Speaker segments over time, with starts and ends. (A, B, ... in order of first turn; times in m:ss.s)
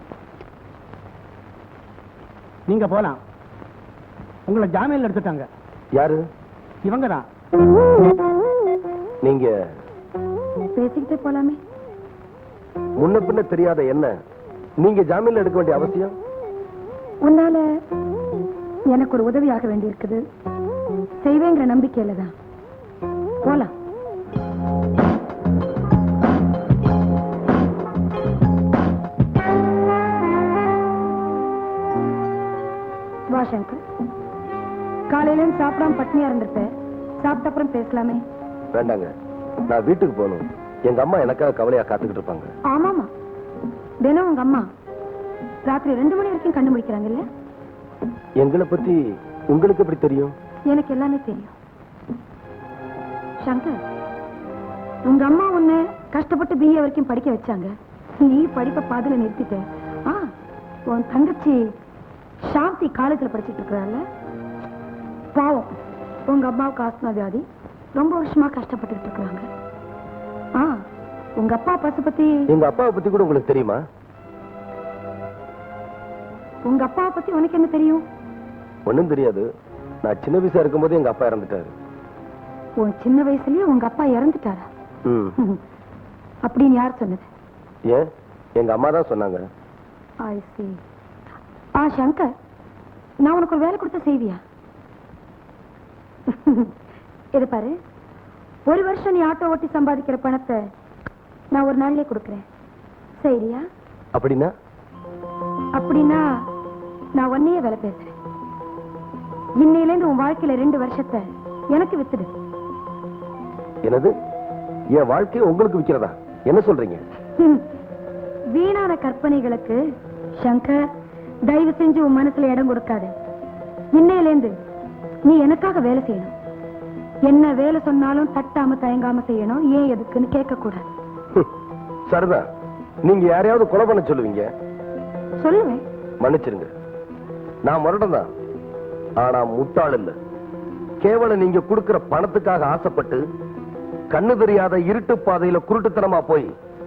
0:02.7-0:03.2 A
0:04.5-0:05.5 A
0:06.0-0:06.2 B
0:06.8-0:07.2 A
0:09.2-0:09.5 B
0:10.7-0:11.6 C
0:13.0-0:14.1 B
0:14.8-0:16.1 B
0:17.2-0:17.6 C
0:18.9-0:20.2 C
0:21.2-0:22.3 C
0:23.4-0:23.7 C
0:33.3-0:33.8 C
0:35.1-0:36.7 C
0:37.2-0:38.2 C
0:38.7-0:39.1 B
0:39.7-0:42.5 B
0:42.7-0:43.1 C
0:44.0-0:44.7 C
0:45.7-0:47.2 C
0:48.4-0:49.0 B
0:49.5-0:50.3 B
0:50.7-0:51.5 C
0:53.4-0:53.8 C
0:55.0-1:00.3 C
1:00.9-1:01.6 C
1:02.4-1:04.0 C
1:05.3-1:05.7 C
1:06.3-1:07.4 C
1:08.0-1:09.5 C
1:11.4-1:12.4 C
1:12.5-1:13.8 B
1:16.7-1:18.0 C
1:18.9-1:19.4 B
1:20.0-1:21.7 B
1:22.8-1:24.7 C
1:25.0-1:25.4 B
1:26.4-1:27.3 C
1:28.6-1:29.4 B
1:30.2-1:30.8 C
1:31.8-1:32.3 C
1:33.2-1:34.4 C
1:36.3-1:36.7 C
1:37.3-1:37.7 C
1:38.6-1:40.6 C
1:41.5-1:42.4 C
1:43.2-1:43.6 C
1:44.1-1:44.5 B
1:45.7-1:46.3 C
1:47.2-1:48.1 C
1:49.6-1:52.3 C
1:53.8-1:54.1 B
1:54.9-1:57.0 B
1:57.4-1:57.6 C
1:58.5-1:59.8 C
2:00.4-2:00.8 C
2:01.5-2:03.1 C
2:03.9-2:04.5 C
2:05.2-2:06.3 C
2:07.3-2:10.9 C
2:12.1-2:12.4 B
2:13.0-2:14.5 B
2:15.4-2:15.8 C
2:16.2-2:16.7 B
2:17.6-2:18.3 B
2:19.2-2:20.1 B
2:21.0-2:23.2 B
2:24.1-2:26.5 B